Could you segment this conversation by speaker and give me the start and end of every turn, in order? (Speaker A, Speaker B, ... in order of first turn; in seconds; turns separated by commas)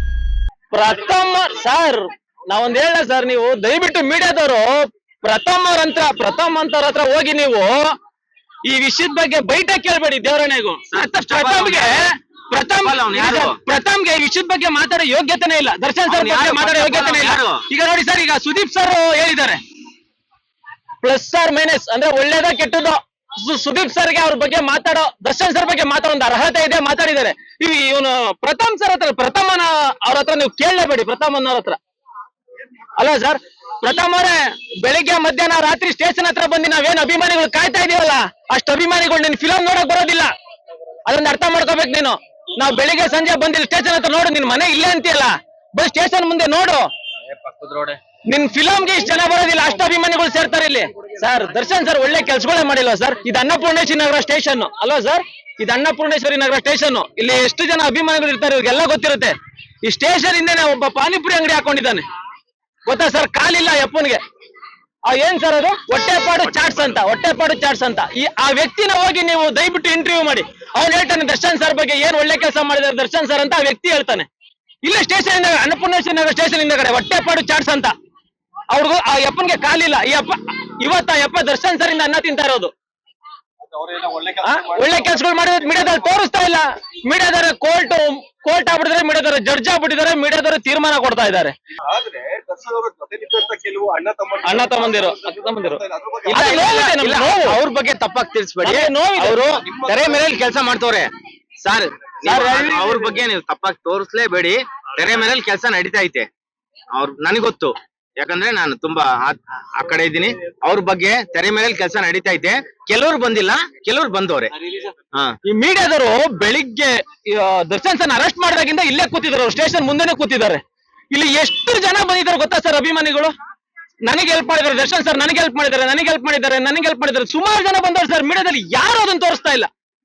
Speaker A: 0.7-7.9, Speaker A: 8.7-19.6, Speaker B: 10.9-12.1, Speaker B: 12.8-13.6, Speaker B: 16.1-17.6, Speaker A: 21.0-31.8, Speaker A: 33.0-40.3, Speaker A: 41.1-46.9, Speaker B: 47.5-48.0, Speaker A: 48.3-62.0, Speaker A: 62.9-64.2, Speaker A: 65.1-74.3, Speaker A: 74.8-77.9, Speaker A: 78.7-82.7, Speaker C: 83.6-86.0, Speaker A: 84.4-91.5, Speaker C: 91.8-96.8, Speaker A: 94.4-97.6, Speaker B: 96.3-101.1, Speaker A: 98.6-99.5, Speaker C: 99.6-100.2, Speaker B: 101.6-106.3, Speaker A: 102.2-103.0, Speaker B: 106.9-114.5, Speaker A: 115.5-120.6, Speaker A: 121.1-123.3, Speaker A: 124.1-129.7